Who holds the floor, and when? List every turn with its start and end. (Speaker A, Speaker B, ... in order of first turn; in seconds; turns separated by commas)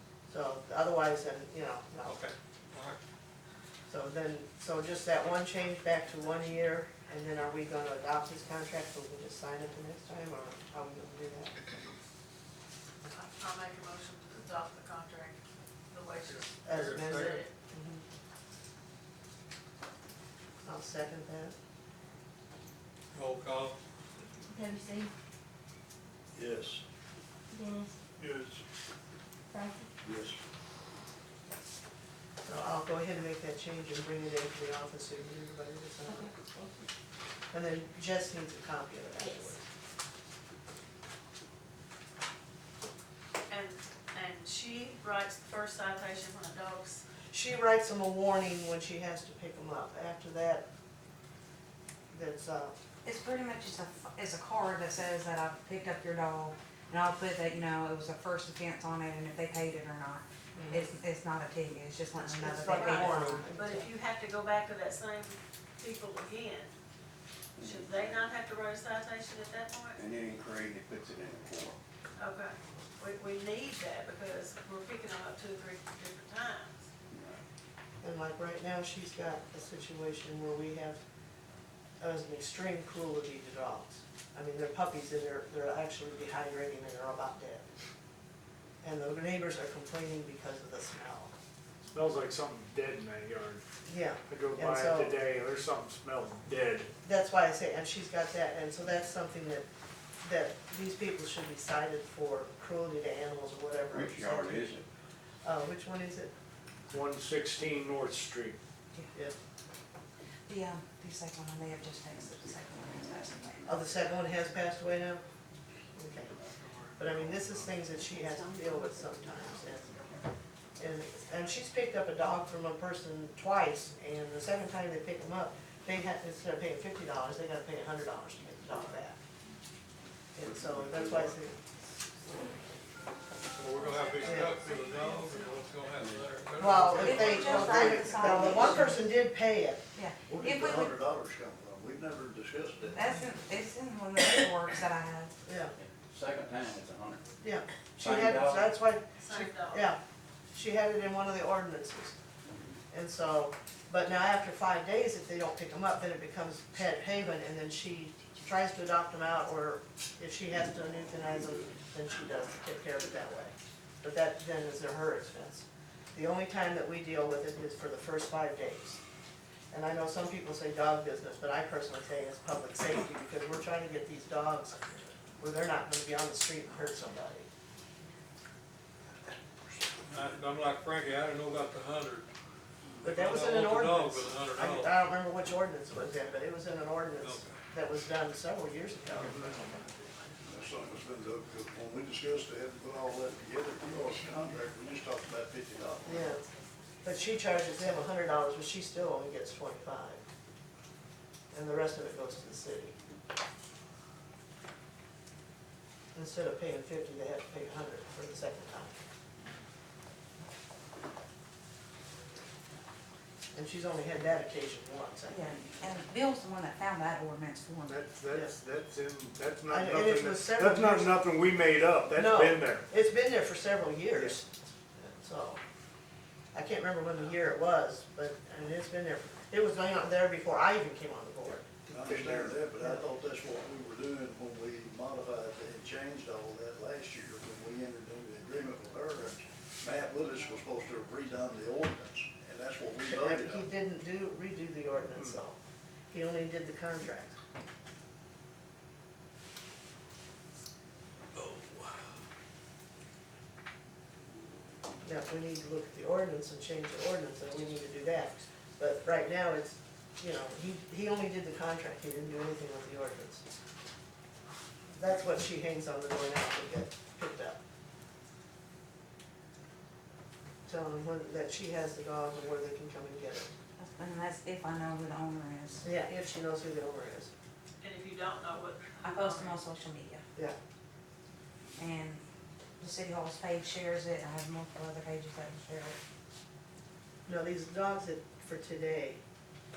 Speaker A: 0.3-2.2, Speaker B: 2.0-3.0, Speaker A: 3.9-11.6, Speaker C: 13.0-15.4, Speaker C: 15.9-16.5, Speaker B: 16.2-17.4, Speaker A: 16.6-18.0, Speaker C: 17.1-17.5, Speaker A: 20.6-21.5, Speaker B: 23.1-23.8, Speaker D: 24.4-25.1, Speaker E: 26.3-26.8, Speaker D: 27.5-27.9, Speaker E: 28.2-28.6, Speaker D: 29.5-29.9, Speaker E: 30.0-30.4, Speaker A: 32.4-36.3, Speaker D: 36.1-36.7, Speaker A: 37.5-39.6, Speaker C: 43.5-47.0, Speaker A: 47.3-50.6, Speaker A: 52.1-52.7, Speaker F: 53.0-63.4, Speaker A: 60.5-60.9, Speaker A: 62.1-63.9, Speaker C: 62.7-66.7, Speaker G: 67.6-68.2, Speaker C: 67.6-70.0, Speaker G: 69.9-71.8, Speaker C: 72.2-76.8, Speaker G: 77.1-77.4, Speaker A: 78.0-81.0, Speaker A: 82.0-87.7, Speaker A: 88.8-91.3, Speaker H: 91.9-93.6, Speaker A: 93.8-95.2, Speaker H: 94.3-96.9, Speaker A: 97.0-99.7, Speaker A: 100.2-104.8, Speaker G: 103.9-104.8, Speaker A: 105.4-106.3, Speaker H: 106.9-108.6, Speaker F: 110.5-113.6, Speaker A: 113.6-115.2, Speaker A: 116.0-116.3, Speaker B: 116.4-117.8, Speaker A: 117.0-120.0, Speaker A: 120.8-129.2, Speaker A: 130.3-131.6, Speaker B: 133.5-137.9, Speaker C: 133.8-135.6, Speaker A: 134.2-134.6, Speaker A: 136.6-139.8, Speaker F: 137.0-139.0, Speaker E: 137.3-138.8, Speaker F: 139.9-141.0, Speaker E: 140.3-143.0, Speaker F: 142.9-145.3, Speaker A: 145.4-145.7, Speaker G: 145.8-147.2, Speaker A: 147.4-149.0, Speaker G: 148.0-148.7, Speaker C: 149.2-149.9, Speaker A: 149.7-150.0, Speaker A: 150.5-152.2, Speaker G: 152.5-152.8, Speaker A: 152.9-169.0, Speaker A: 169.7-177.5, Speaker B: 180.1-182.3, Speaker B: 183.0-185.0, Speaker A: 183.0-190.0, Speaker B: 187.2-187.6, Speaker B: 189.1-189.6, Speaker C: 190.0-190.2, Speaker E: 190.4-196.3, Speaker A: 196.0-196.4, Speaker A: 197.0-200.2, Speaker A: 201.5-202.9, Speaker A: 206.1-208.9, Speaker A: 213.5-215.9, Speaker F: 215.3-217.9, Speaker H: 217.9-222.8, Speaker A: 218.3-218.6, Speaker A: 219.7-221.2, Speaker A: 222.1-225.6, Speaker H: 224.1-224.4, Speaker A: 226.5-231.8, Speaker E: 231.9-243.7, Speaker H: 232.0-232.5, Speaker A: 232.8-233.0, Speaker A: 243.0-245.6, Speaker A: 246.1-247.4, Speaker A: 255.0-263.4, Speaker A: 264.9-267.6, Speaker A: 270.6-273.5, Speaker F: 273.8-275.9, Speaker A: 275.8-277.3, Speaker C: 277.8-279.6, Speaker F: 279.0-280.2, Speaker F: 281.8-282.2, Speaker F: 282.8-286.0, Speaker A: 287.2-289.2